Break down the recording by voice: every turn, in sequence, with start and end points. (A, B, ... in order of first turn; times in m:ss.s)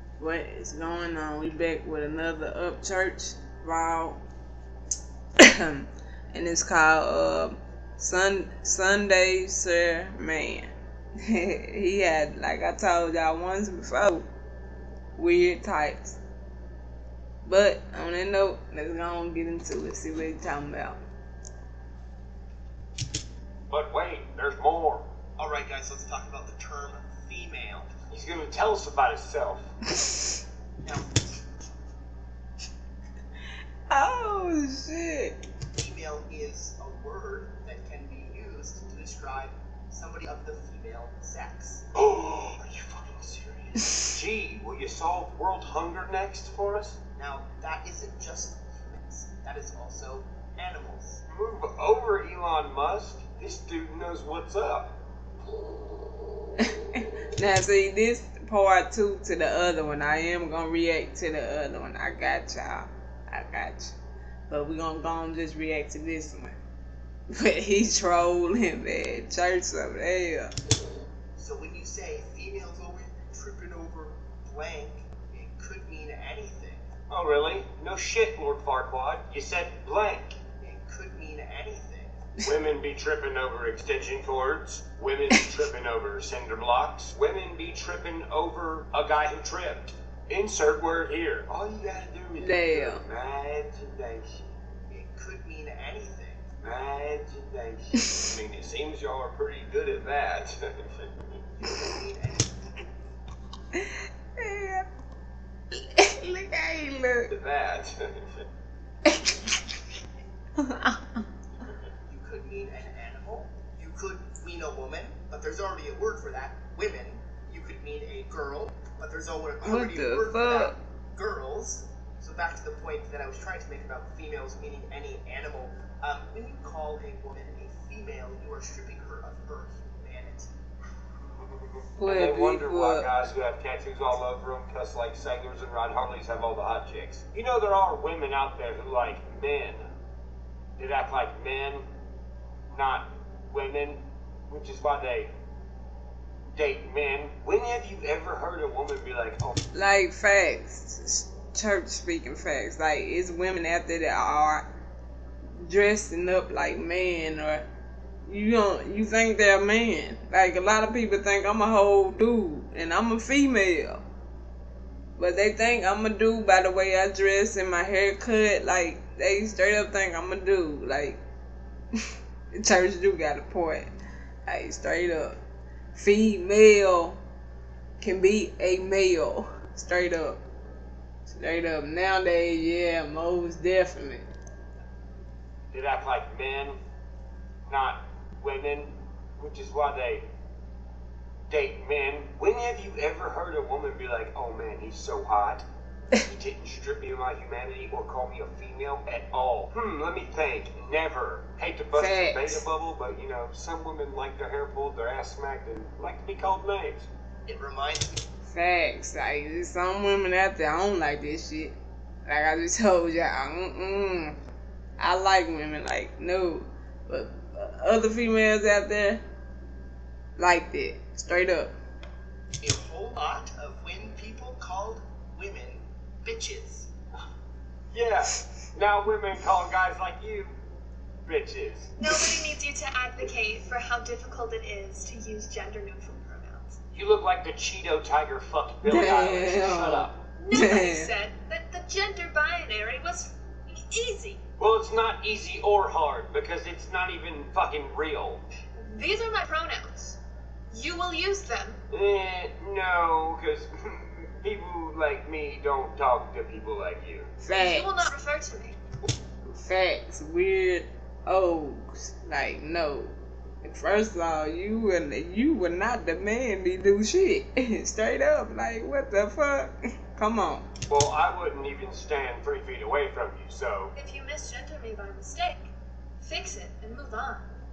0:00.2-0:04.2 A
0:05.4-0:14.2 A
0:15.2-0:16.2 A
0:17.4-0:21.0 A
0:23.7-0:25.1 B
0:25.4-0:27.9 C
0:28.1-0:29.7 B
0:30.8-0:31.2 C
0:33.9-0:35.4 A
0:35.8-0:41.8 C
0:42.0-0:47.0 B
0:47.2-0:51.2 C
0:51.3-0:55.0 B
0:56.6-1:03.9 A
1:04.5-1:06.6 A
1:07.3-1:10.5 A
1:11.4-1:16.8 C
1:17.1-1:20.4 B
1:20.6-1:22.1 C
1:22.4-1:34.4 B
1:32.4-1:33.0 A
1:34.9-1:36.4 C
1:36.6-1:41.1 B
1:41.6-1:42.5 C
1:44.4-1:44.9 A
1:45.7-1:47.3 A
1:47.3-1:48.4 B
1:49.1-1:49.4 A
1:50.6-1:51.2 A
1:52.1-2:10.5 C
1:59.6-2:00.7 A
2:11.4-2:19.8 B
2:12.0-2:13.1 A
2:20.8-2:21.8 B
2:22.7-2:25.3 B
2:26.5-2:29.6 B
2:29.7-2:34.6 A
2:35.6-2:37.6 A
2:38.3-2:44.0 A
2:45.2-2:51.2 A
2:52.5-2:53.9 A
2:54.5-2:55.4 A
2:55.9-2:57.2 A
2:58.0-3:00.4 A
3:01.3-3:04.3 A
3:05.7-3:06.8 B
3:07.7-3:10.2 B
3:11.5-3:15.7 B
3:16.2-3:27.1 B
3:21.9-3:22.6 A
3:27.4-3:28.2 C
3:28.5-3:31.8 A
3:32.3-3:34.4 A
3:35.0-3:39.2 A
3:40.4-3:41.7 A
3:42.6-3:46.9 C
3:47.9-3:50.6 B
3:51.3-3:52.3 B
3:52.0-3:56.8 D
3:56.9-4:00.2 B
3:58.9-4:01.1 A
4:00.4-4:04.4 D
4:04.6-4:08.4 B
4:08.8-4:10.2 D
4:10.7-4:11.8 D
4:11.9-4:17.3 B
4:17.4-4:18.1 A
4:17.5-4:18.8 D
4:19.5-4:30.7 A
4:30.9-4:33.9 B
4:34.0-4:35.7 D
4:36.2-4:37.5 D